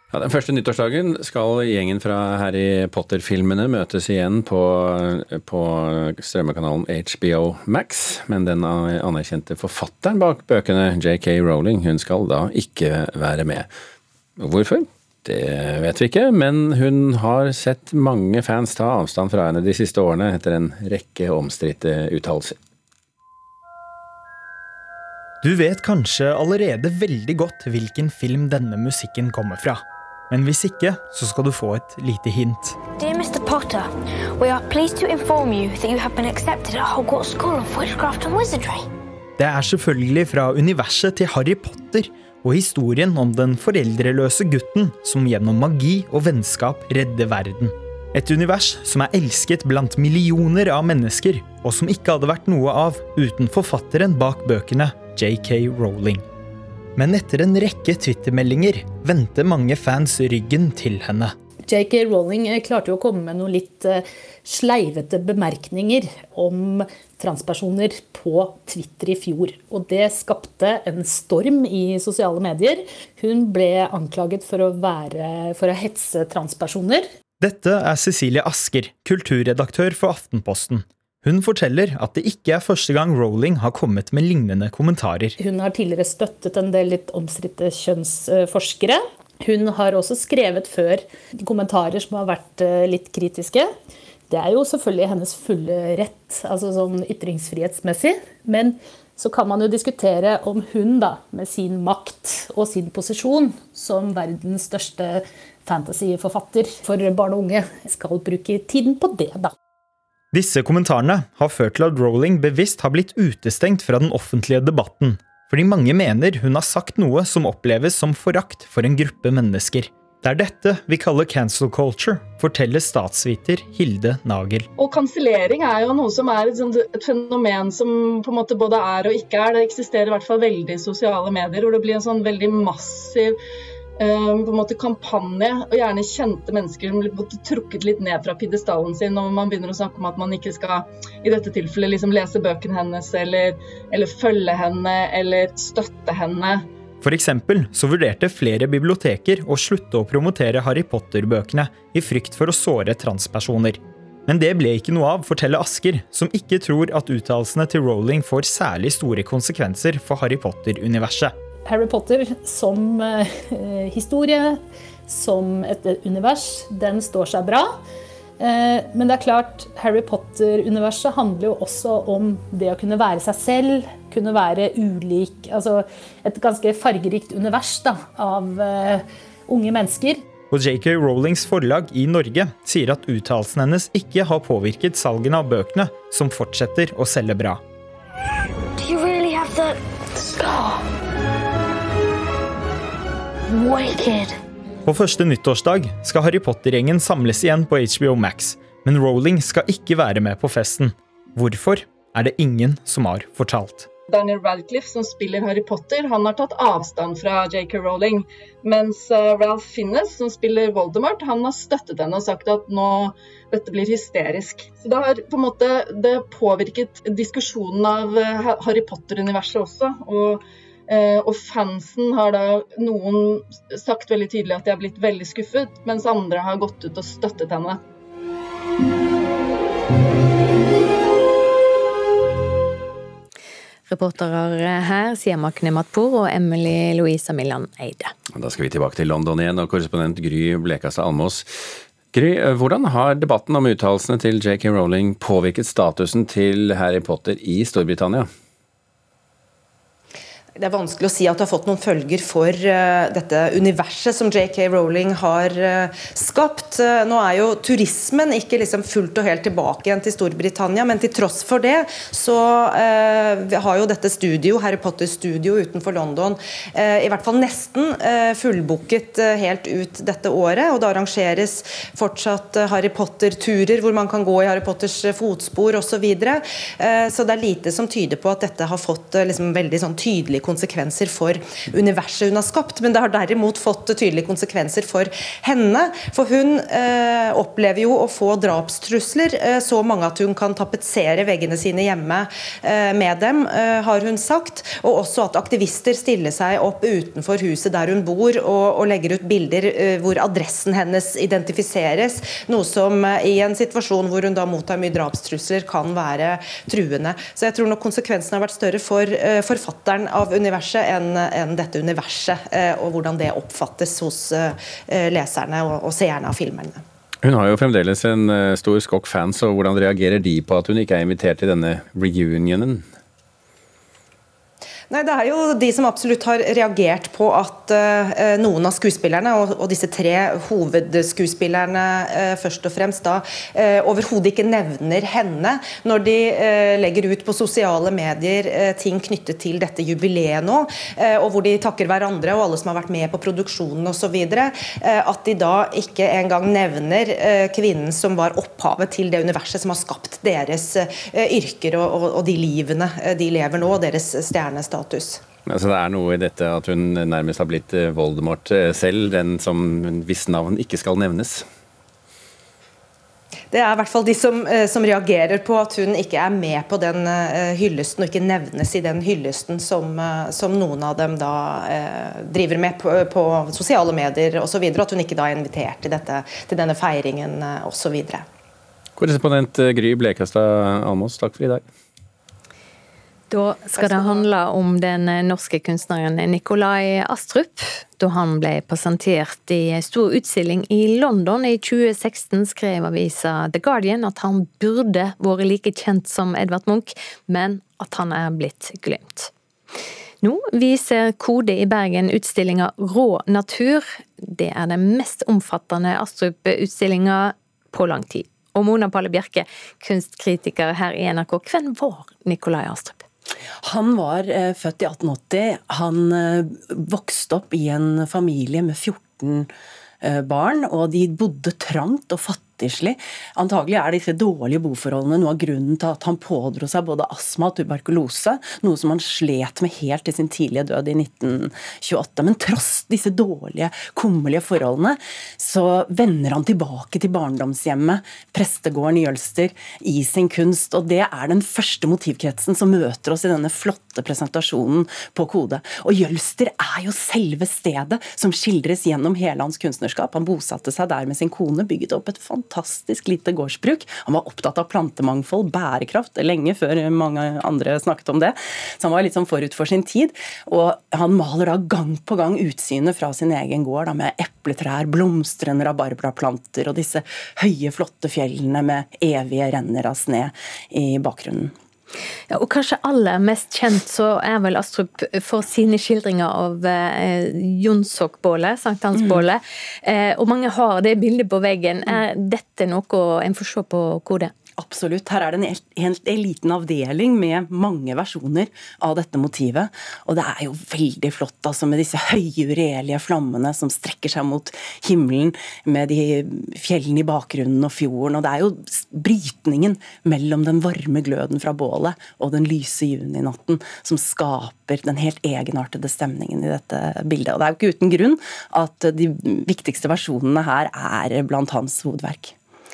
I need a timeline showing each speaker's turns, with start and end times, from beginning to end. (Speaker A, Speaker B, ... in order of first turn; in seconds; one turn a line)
Speaker A: 0.1-13.7
Speaker A: 14.4-22.5
Speaker B: 25.4-32.8
Speaker C: 33.0-38.9
Speaker B: 39.4-56.2
Speaker B: 57.0-61.3
Speaker D: 61.7-77.0
Speaker B: 77.4-85.3
Speaker D: 85.4-93.7
Speaker D: 94.3-109.5
Speaker B: 110.3-124.7
Speaker E: 124.8-133.3
Speaker E: 134.0-146.7
Speaker B: 147.0-161.3
Speaker D: 161.7-167.7
Speaker D: 168.4-180.2
Speaker B: 180.5-187.6
Speaker C: 188.8-190.8
Speaker C: 193.5-194.3
Speaker B: 194.8-203.9
Speaker E: 204.1-227.8
Speaker F: 233.9-238.1
Speaker A: 238.3-241.4
Speaker A: 242.1-248.3
Speaker G: 250.6-316.8
Speaker A: 317.2-322.8
Speaker G: 324.9-355.2
Speaker A: 355.5-361.4
Speaker G: 363.5-378.2
Speaker A: 379.0-381.6
Speaker F: 383.3-399.3
Speaker G: 383.8-384.2
Speaker F: 400.2-413.0
Speaker H: 413.6-419.5
Speaker H: 420.0-471.5
Speaker F: 472.3-484.3
Speaker H: 484.6-512.3